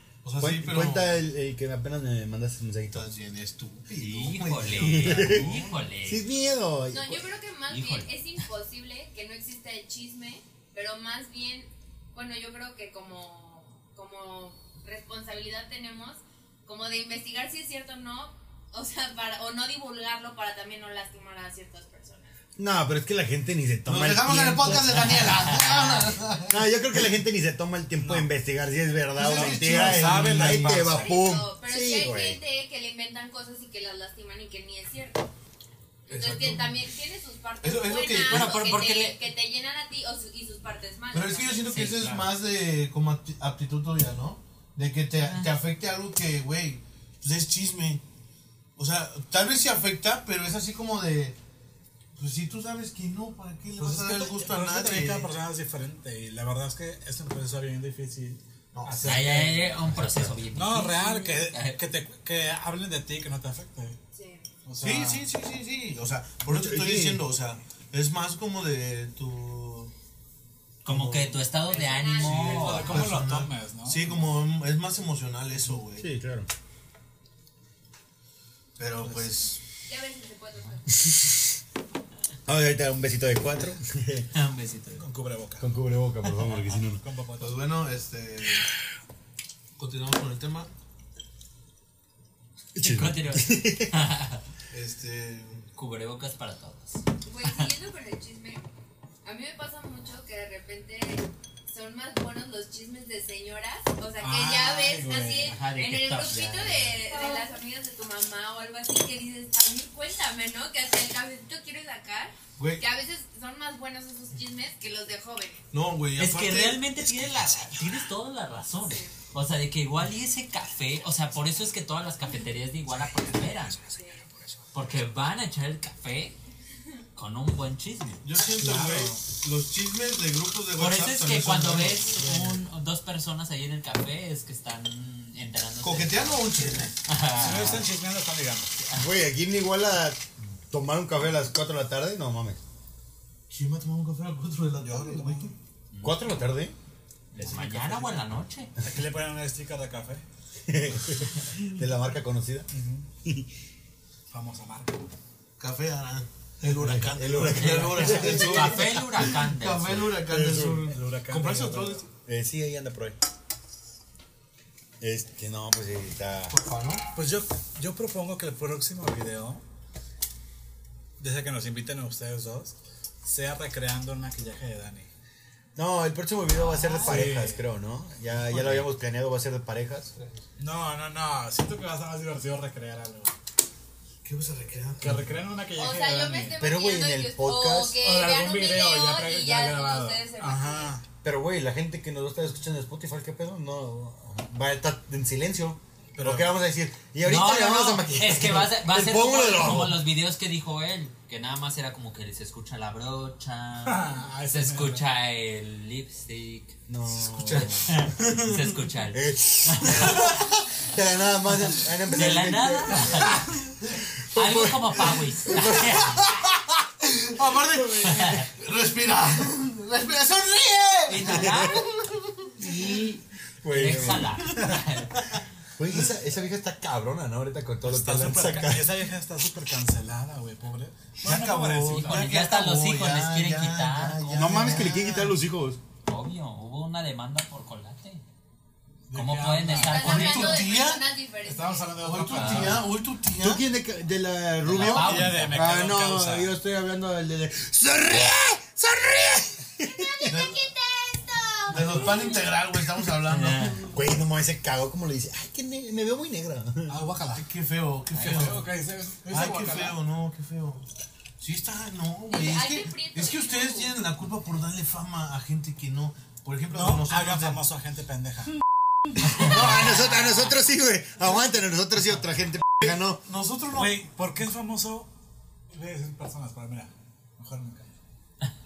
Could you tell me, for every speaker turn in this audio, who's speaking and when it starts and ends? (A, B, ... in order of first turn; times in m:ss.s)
0:00.2-0:01.2 A
0:00.4-0:03.1 B
0:02.9-0:05.5 A
0:03.9-0:06.2 C
0:04.8-0:07.2 B
0:06.9-0:22.3 D
0:07.7-0:08.1 C
0:22.6-0:25.5 B
0:23.9-0:26.9 A
0:25.5-0:25.8 C
0:26.5-0:32.4 B
0:29.2-0:31.0 A
0:29.2-0:31.2 E
0:30.8-0:35.3 D
0:36.1-0:36.7 A
0:36.1-0:41.8 D
0:37.6-0:38.6 A
0:38.2-0:39.2 C
0:41.1-0:48.0 A
0:41.7-0:42.2 C
0:41.8-0:42.2 E
0:48.8-0:51.4 A
0:52.2-0:55.3 A
0:53.8-1:00.0 E
0:58.7-0:59.1 A
0:59.0-1:01.8 C
0:59.9-1:00.4 B
1:00.5-1:04.0 E
1:04.1-1:04.5 D
1:04.6-1:05.2 E
1:04.8-1:09.9 A
1:06.4-1:07.2 B
1:10.8-1:11.5 A
1:10.8-1:13.2 C
1:11.7-1:12.9 D
1:12.2-1:14.3 E
1:12.2-1:16.1 A
1:16.0-1:16.5 B
1:18.8-1:19.6 A
1:19.0-1:19.3 E
1:19.8-1:21.4 D
1:22.4-1:24.3 B
1:24.3-1:25.0 C
1:25.0-1:25.7 E
1:25.6-1:27.0 B
1:26.4-1:27.6 E
1:27.4-1:28.7 A
1:29.8-1:30.7 A
1:32.7-1:34.0 B
1:32.8-1:34.4 C
1:34.7-1:35.7 A
1:35.7-1:37.6 C
1:37.2-1:38.6 D
1:39.2-1:55.6 D
1:44.2-1:45.6 E
1:45.4-1:47.0 C
1:52.6-1:52.8 A
1:55.7-1:57.2 A
1:56.2-2:03.8 C
1:58.8-1:59.1 D
2:03.1-2:03.9 E
2:03.9-2:04.2 D
2:04.7-2:06.4 C
2:07.1-2:08.2 C
2:08.2-2:12.1 A
2:08.5-2:09.2 E
2:10.8-2:17.9 C
2:12.0-2:12.6 E
2:15.8-2:16.9 A
2:17.2-2:18.7 E
2:18.9-2:22.6 B
2:23.5-2:25.5 A
2:24.8-2:25.5 E
2:25.9-2:26.3 C
2:26.0-2:26.7 B
2:27.3-2:28.7 C
2:27.4-2:28.2 E
2:28.8-2:30.2 E
2:30.6-2:32.7 B
2:32.7-2:33.0 E
2:34.3-2:35.1 E
2:35.6-2:42.0 A
2:36.6-2:38.8 B
2:37.5-2:40.2 C
2:38.0-2:38.7 E
2:40.1-2:40.8 B
2:40.9-2:42.0 E
2:42.2-2:43.2 B
2:45.0-2:46.5 B
2:46.5-2:47.0 A
2:47.1-2:49.6 E
2:51.2-2:55.1 E
2:55.7-3:00.1 B
2:56.5-2:57.3 C
2:56.9-2:57.6 E
2:58.4-2:58.8 E
3:00.6-3:03.3 E
3:04.2-3:05.3 A
3:05.0-3:06.6 E
3:05.7-3:10.9 D
3:06.6-3:08.0 B
3:08.0-3:11.0 E
3:11.2-3:20.0 B
3:16.1-3:16.5 E
3:17.2-3:26.8 C
3:23.8-3:25.0 E
3:26.9-3:28.0 B
3:27.2-3:28.6 A
3:27.5-3:30.5 C
3:29.1-3:33.5 B
3:32.1-3:33.4 C
3:34.2-3:36.0 B
3:34.3-3:36.5 C
3:35.6-3:42.7 A
3:38.0-3:38.5 C
3:41.1-3:41.9 C
3:41.2-3:41.8 B
3:42.5-3:45.2 C
3:43.6-3:44.7 B
3:45.8-3:49.0 B
3:47.8-3:52.3 E
3:51.2-3:55.3 A
3:51.9-3:55.0 C
3:54.4-3:55.8 B
3:56.0-3:58.2 C
3:59.1-4:00.2 E
3:59.1-4:00.7 C
3:59.7-4:02.4 D
4:00.0-4:01.0 A
4:01.4-4:02.9 E
4:02.0-4:03.6 A
4:02.3-4:02.8 C
4:03.4-4:10.3 B
4:04.6-4:05.7 C
4:04.7-4:06.5 E
4:09.9-4:11.7 D
4:10.3-4:10.6 A
4:11.7-4:13.9 A
4:11.7-4:12.3 C
4:13.2-4:13.9 C
4:13.9-4:17.0 B
4:16.9-4:17.4 E
4:17.3-4:18.7 A
4:18.2-4:20.0 E
4:18.2-4:18.5 C
4:19.3-4:20.8 A
4:21.4-4:27.6 A
4:22.3-4:23.9 D
4:26.7-4:28.5 E
4:29.3-4:33.2 B
4:32.8-4:34.0 A
4:33.7-4:35.1 E
4:35.7-4:38.0 E